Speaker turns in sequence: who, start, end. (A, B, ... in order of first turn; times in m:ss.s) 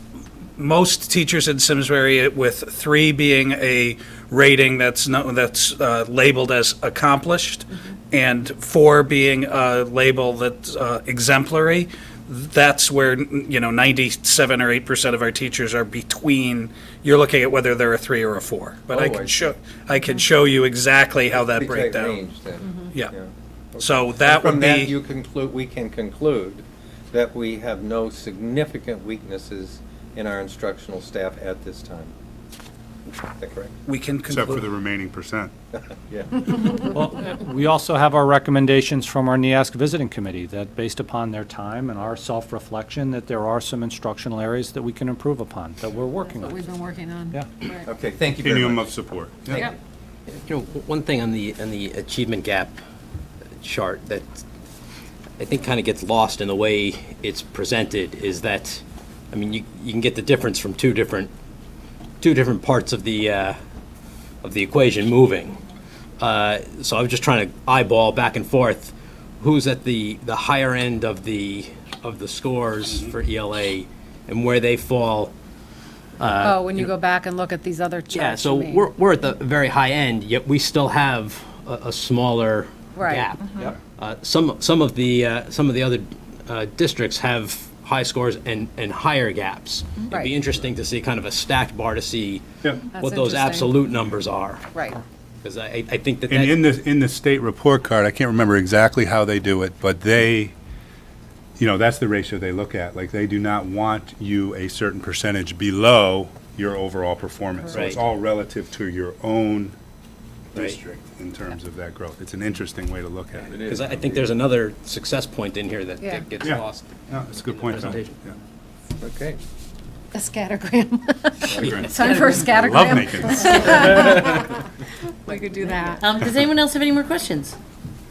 0:00.6-0:22.2 A
0:18.9-0:19.5 B
0:21.3-0:32.1 B
0:22.9-0:23.1 A
0:23.8-0:25.0 A
0:33.4-0:33.7 B
0:33.8-0:34.7 A
0:34.3-0:35.5 C
0:36.1-0:37.0 B
0:36.6-0:46.6 D
0:46.2-0:47.9 E
0:47.8-0:48.9 B
0:48.4-0:49.7 C
0:50.3-0:52.8 F
0:53.6-0:54.4 F
0:55.4-1:01.3 F
1:02.2-1:03.6 F
1:04.4-1:05.6 F
1:06.2-1:15.3 F
1:16.2-1:16.9 F
1:16.4-1:18.9 E
1:18.1-1:32.4 F
1:23.0-1:23.3 E
1:32.9-1:33.8 E
1:33.0-1:34.7 F
1:34.7-1:35.0 E
1:35.4-1:36.6 F
1:36.3-1:40.5 C
1:41.6-1:49.8 C
1:47.7-1:48.0 F
1:50.5-1:54.2 C
1:53.4-1:58.3 F
1:56.4-1:58.4 C
1:59.0-1:59.4 B
2:00.1-2:04.5 E
2:01.5-2:01.8 B
2:01.5-2:04.1 C
2:02.0-2:02.4 G
2:05.1-2:06.1 E
2:06.0-2:07.6 G